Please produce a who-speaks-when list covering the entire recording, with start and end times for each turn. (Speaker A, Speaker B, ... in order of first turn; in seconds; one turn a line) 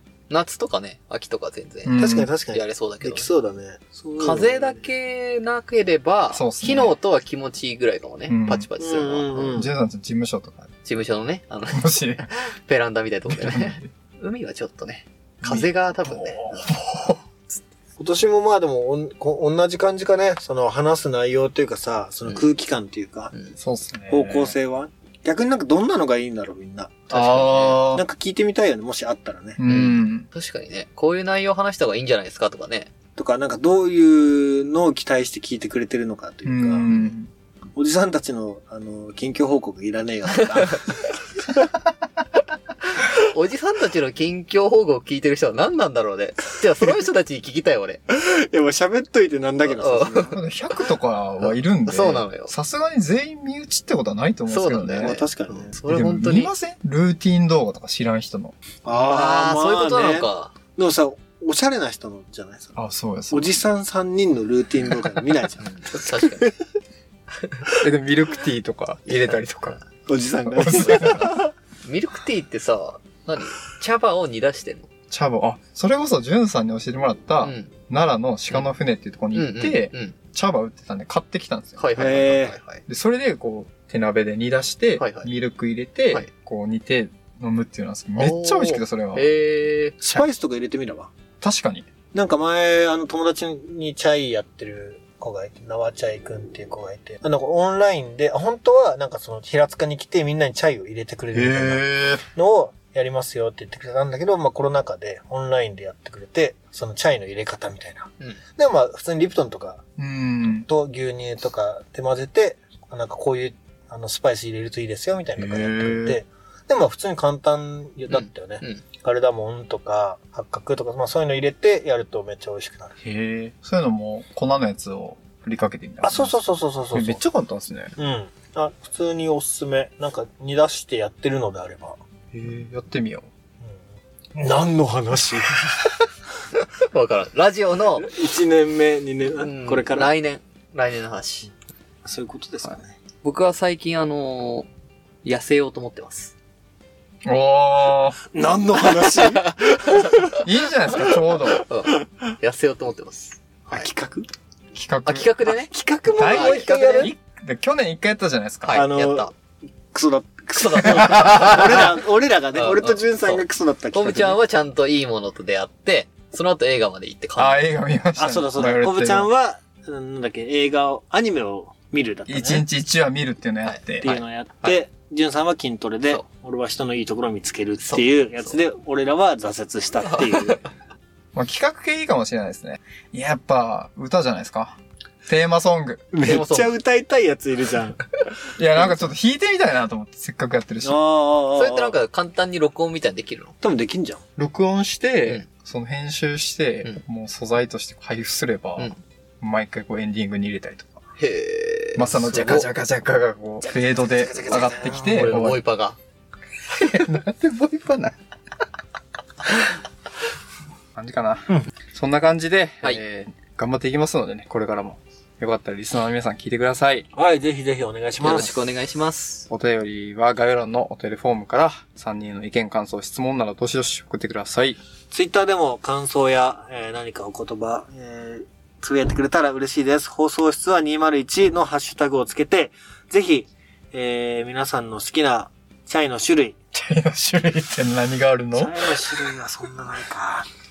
Speaker A: 0.3-2.0
Speaker B: 1.9-2.3
Speaker C: 2.0-4.9
Speaker A: 2.5-3.3
Speaker A: 4.2-9.6
Speaker B: 6.3-7.0
Speaker B: 8.3-8.7
Speaker C: 8.8-9.7
Speaker B: 9.5-10.7
Speaker A: 10.8-16.8
Speaker B: 11.7-12.3
Speaker B: 13.3-13.9
Speaker B: 15.4-17.2
Speaker C: 18.0-23.3
Speaker B: 23.6-24.6
Speaker C: 24.1-29.6
Speaker B: 27.1-28.0
Speaker A: 27.1-27.9
Speaker B: 29.6-30.3
Speaker A: 29.6-32.9
Speaker C: 33.2-36.9
Speaker B: 36.5-37.3
Speaker A: 36.9-37.1
Speaker C: 37.8-41.1
Speaker A: 43.0-48.0
Speaker C: 48.1-50.4
Speaker A: 49.7-50.3
Speaker B: 50.3-55.2
Speaker A: 51.4-52.5
Speaker A: 54.5-56.5
Speaker C: 55.0-55.8
Speaker B: 55.8-58.6
Speaker C: 58.8-62.8
Speaker A: 58.9-60.5
Speaker B: 62.8-63.5
Speaker C: 63.3-66.6
Speaker A: 65.6-66.5
Speaker B: 67.8-69.8
Speaker C: 70.1-71.5
Speaker B: 70.5-71.3
Speaker A: 70.8-71.3
Speaker A: 71.8-74.9
Speaker B: 75.1-89.3
Speaker A: 77.4-77.7
Speaker A: 79.3-80.2
Speaker A: 81.8-82.8
Speaker C: 82.0-82.6
Speaker A: 85.0-85.3
Speaker A: 88.2-90.0
Speaker C: 90.0-91.1
Speaker B: 91.4-91.9
Speaker C: 92.1-109.8
Speaker B: 101.3-102.2
Speaker B: 110.0-110.7
Speaker C: 110.7-123.0
Speaker B: 115.4-116.2
Speaker A: 118.1-118.8
Speaker B: 123.0-126.4
Speaker C: 126.0-127.2
Speaker B: 126.9-128.0
Speaker C: 128.0-132.0
Speaker B: 132.3-133.3
Speaker C: 134.3-135.9
Speaker A: 136.6-138.1
Speaker C: 138.0-140.1
Speaker A: 139.4-141.5
Speaker C: 142.1-143.0
Speaker A: 143.2-144.7
Speaker A: 145.2-146.3
Speaker B: 147.2-148.2
Speaker C: 148.3-150.3
Speaker A: 149.0-150.3
Speaker B: 150.4-151.7
Speaker A: 151.6-153.9
Speaker C: 153.7-154.3
Speaker B: 154.7-155.3
Speaker A: 155.1-157.1
Speaker C: 155.7-157.1
Speaker B: 156.1-158.8
Speaker A: 158.6-159.3
Speaker C: 158.7-159.3
Speaker C: 159.9-164.4
Speaker A: 160.6-161.8
Speaker A: 162.6-167.6
Speaker B: 167.4-169.3
Speaker C: 168.2-172.7
Speaker B: 172.3-174.1
Speaker A: 173.6-174.8
Speaker C: 174.0-180.7
Speaker A: 177.8-178.6
Speaker A: 180.0-180.6
Speaker B: 181.3-186.0
Speaker C: 186.1-188.1
Speaker A: 186.2-186.7
Speaker B: 188.6-191.0
Speaker C: 190.8-192.0
Speaker A: 191.6-193.5
Speaker C: 193.6-194.2
Speaker B: 194.4-201.0
Speaker A: 201.2-202.7
Speaker B: 202.0-205.6
Speaker C: 204.3-205.0
Speaker A: 204.7-206.0
Speaker B: 206.7-208.2
Speaker B: 211.0-217.1
Speaker C: 217.1-218.6
Speaker A: 218.2-219.5
Speaker B: 219.5-224.8
Speaker C: 225.1-236.6
Speaker B: 236.7-239.1
Speaker C: 238.5-240.5